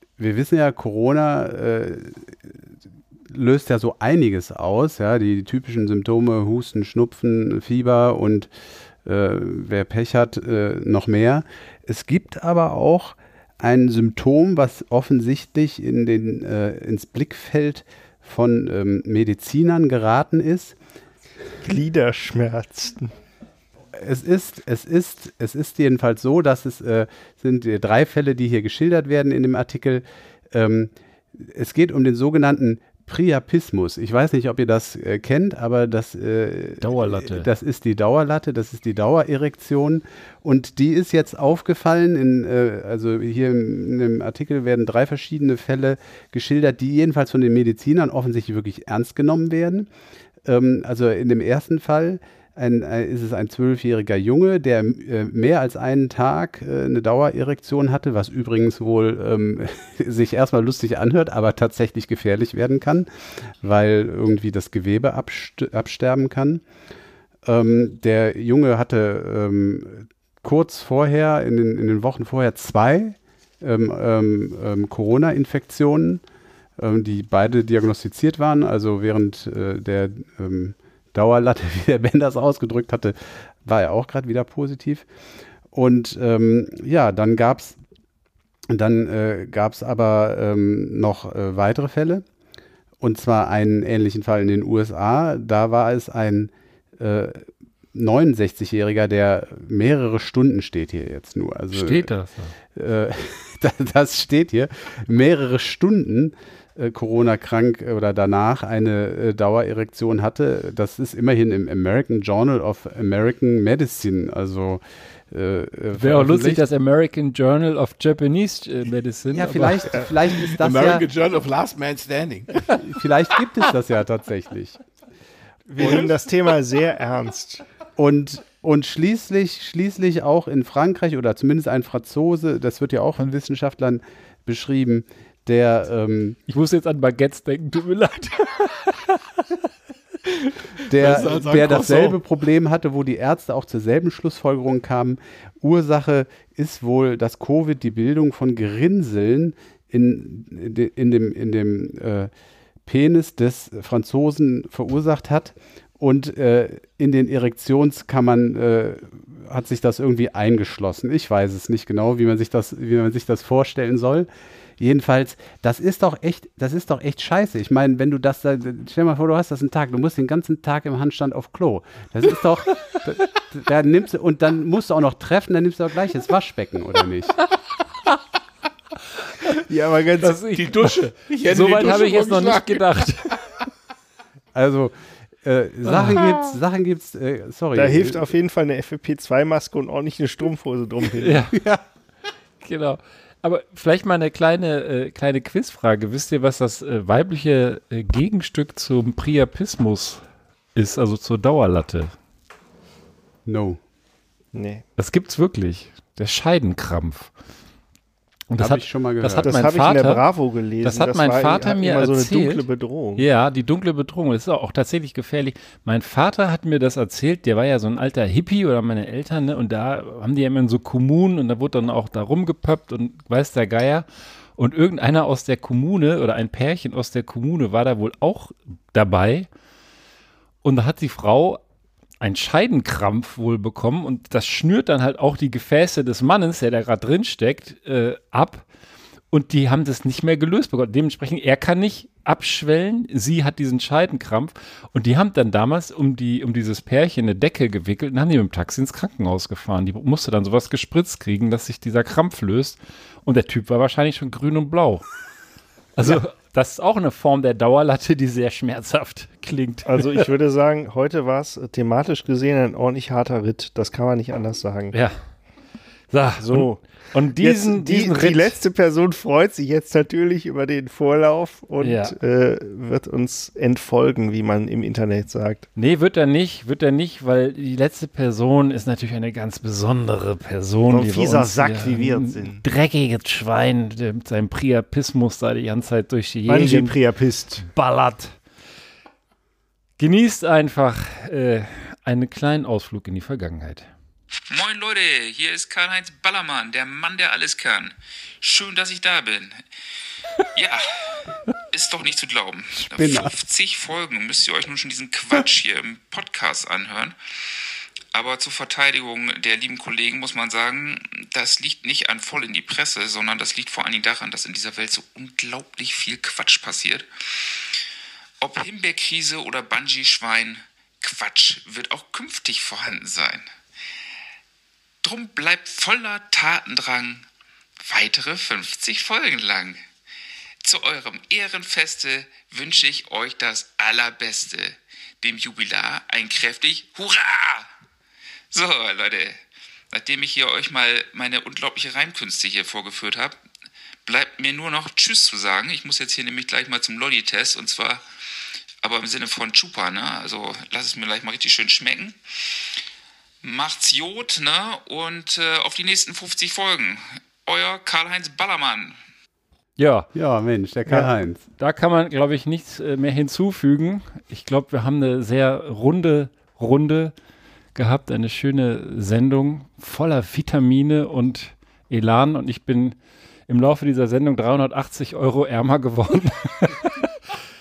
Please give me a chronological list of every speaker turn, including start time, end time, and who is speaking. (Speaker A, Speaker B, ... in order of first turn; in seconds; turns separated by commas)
Speaker A: 0.2-2.4, Speaker A: 3.3-8.5, Speaker A: 9.1-20.8, Speaker B: 21.6-23.1, Speaker A: 23.9-49.9, Speaker C: 36.8-37.5, Speaker A: 50.5-63.1, Speaker A: 63.6-66.6, Speaker A: 67.5-76.2, Speaker A: 76.8-85.1, Speaker A: 85.7-87.8, Speaker A: 88.7-92.2, Speaker A: 93.0-102.1, Speaker C: 101.7-102.5, Speaker A: 102.7-116.6, Speaker C: 116.0-120.1, Speaker A: 119.3-121.0, Speaker D: 120.5-122.5, Speaker A: 122.8-124.8, Speaker B: 125.7-127.6, Speaker A: 128.0-136.4, Speaker C: 136.5-139.1, Speaker D: 140.5-142.2, Speaker A: 140.9-152.3, Speaker A: 152.9-164.3, Speaker A: 164.8-177.4, Speaker B: 179.7-180.4, Speaker C: 180.2-180.9, Speaker D: 180.6-182.8, Speaker C: 181.5-183.4, Speaker A: 184.5-188.3, Speaker C: 185.9-186.2, Speaker B: 187.8-191.5, Speaker C: 191.2-191.5, Speaker A: 191.5-191.8, Speaker C: 192.6-200.2, Speaker C: 200.8-202.1, Speaker A: 203.5-203.8, Speaker B: 204.5-204.8, Speaker C: 205.0-207.3, Speaker C: 208.5-210.2, Speaker A: 208.6-209.6, Speaker B: 209.4-213.2, Speaker C: 210.8-212.7, Speaker C: 213.2-224.1, Speaker C: 224.6-229.5, Speaker C: 230.6-231.6, Speaker C: 232.2-238.7, Speaker C: 239.3-255.1, Speaker C: 256.0-260.2, Speaker B: 259.9-264.9, Speaker C: 266.1-268.6, Speaker B: 266.4-275.7, Speaker C: 271.8-272.1, Speaker C: 275.8-287.0, Speaker B: 280.9-282.6, Speaker B: 286.5-287.6, Speaker C: 287.6-288.4, Speaker C: 290.0-293.9, Speaker E: 294.5-299.6, Speaker E: 300.5-307.2, Speaker A: 302.7-303.3, Speaker E: 308.1-317.8, Speaker E: 318.4-323.5, Speaker E: 325.0-327.3, Speaker E: 327.8-329.9, Speaker E: 330.6-337.7, Speaker E: 338.5-343.4, Speaker E: 344.1-348.0, Speaker E: 348.8-352.2, Speaker E: 353.4-359.0, Speaker C: 359.8-360.1, Speaker A: 360.1-361.4, Speaker C: 361.6-367.1, Speaker C: 367.8-377.1